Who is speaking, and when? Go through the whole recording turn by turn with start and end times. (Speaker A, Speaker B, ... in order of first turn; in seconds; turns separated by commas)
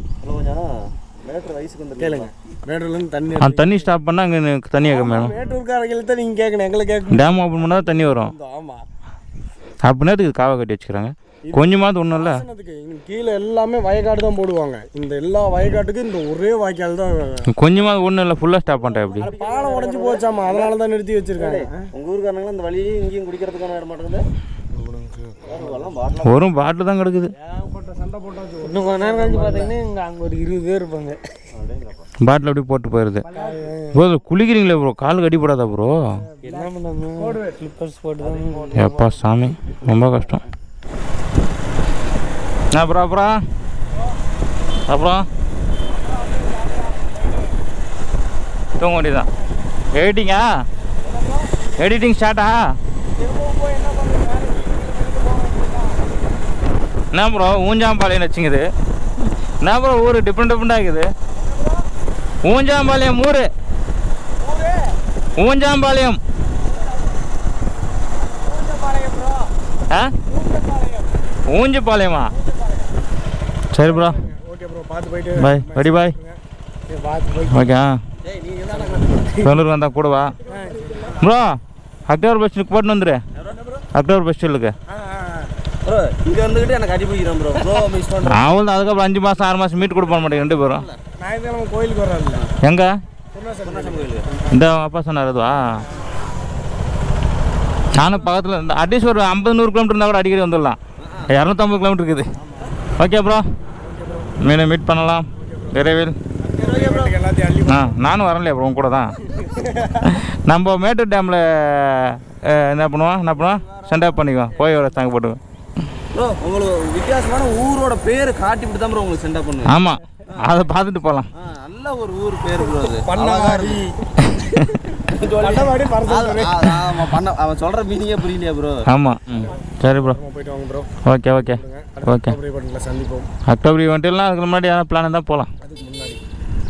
Speaker A: 0.2-2.3, Speaker B: 2.0-3.9, Speaker C: 3.4-5.3, Speaker B: 4.9-8.8, Speaker C: 7.1-8.3, Speaker C: 9.8-12.4, Speaker B: 11.5-17.5, Speaker C: 17.5-19.3, Speaker A: 18.7-20.8, Speaker B: 19.2-21.8, Speaker A: 21.4-24.3, Speaker B: 24.7-25.9, Speaker A: 25.5-26.5, Speaker C: 26.2-27.3, Speaker B: 27.4-29.8, Speaker D: 28.6-31.4, Speaker A: 31.6-32.1, Speaker C: 32.2-33.3, Speaker B: 33.3-33.8, Speaker D: 33.4-34.0, Speaker C: 33.9-36.2, Speaker B: 36.3-37.7, Speaker D: 36.5-38.8, Speaker A: 38.2-40.1, Speaker C: 38.7-40.4, Speaker C: 42.7-43.3, Speaker C: 44.9-45.3, Speaker B: 45.9-47.6, Speaker C: 48.8-49.3, Speaker C: 49.9-50.5, Speaker B: 51.1-51.4, Speaker C: 51.8-52.6, Speaker B: 53.2-56.1, Speaker C: 57.1-58.6, Speaker C: 59.6-61.1, Speaker B: 61.4-61.8, Speaker C: 62.5-63.5, Speaker B: 64.4-64.7, Speaker C: 65.4-66.2, Speaker A: 66.8-67.0, Speaker B: 68.4-69.5, Speaker C: 69.9-70.2, Speaker B: 70.3-71.4, Speaker C: 71.5-72.3, Speaker B: 72.3-72.8, Speaker C: 73.7-74.2, Speaker B: 73.8-76.4, Speaker C: 75.4-76.2, Speaker D: 77.0-77.7, Speaker C: 77.5-78.0, Speaker A: 78.2-79.5, Speaker C: 79.4-80.4, Speaker B: 80.5-81.2, Speaker C: 81.2-81.5, Speaker C: 82.1-83.2, Speaker C: 83.9-84.7, Speaker B: 84.9-85.5, Speaker A: 85.8-88.5, Speaker C: 88.2-90.9, Speaker A: 89.9-91.0, Speaker B: 91.2-92.5, Speaker C: 92.6-92.9, Speaker B: 93.3-94.5, Speaker A: 93.6-94.4, Speaker C: 94.5-95.8, Speaker C: 97.9-100.8, Speaker A: 101.0-101.3, Speaker C: 101.3-102.3, Speaker B: 102.4-102.7, Speaker C: 103.0-103.5, Speaker B: 103.8-104.4, Speaker C: 104.4-106.2, Speaker B: 105.4-105.8, Speaker B: 106.4-108.0, Speaker A: 106.5-107.2, Speaker C: 107.7-109.2, Speaker B: 109.3-110.2, Speaker C: 110.0-115.4, Speaker A: 113.4-114.5, Speaker A: 116.1-119.8, Speaker C: 119.7-121.3, Speaker A: 121.3-123.9, Speaker B: 122.8-124.1, Speaker C: 124.2-124.8, Speaker A: 125.0-128.8, Speaker B: 125.4-127.1, Speaker C: 128.9-130.2, Speaker B: 129.4-133.3, Speaker C: 131.1-132.4, Speaker C: 133.5-135.5, Speaker B: 135.6-136.2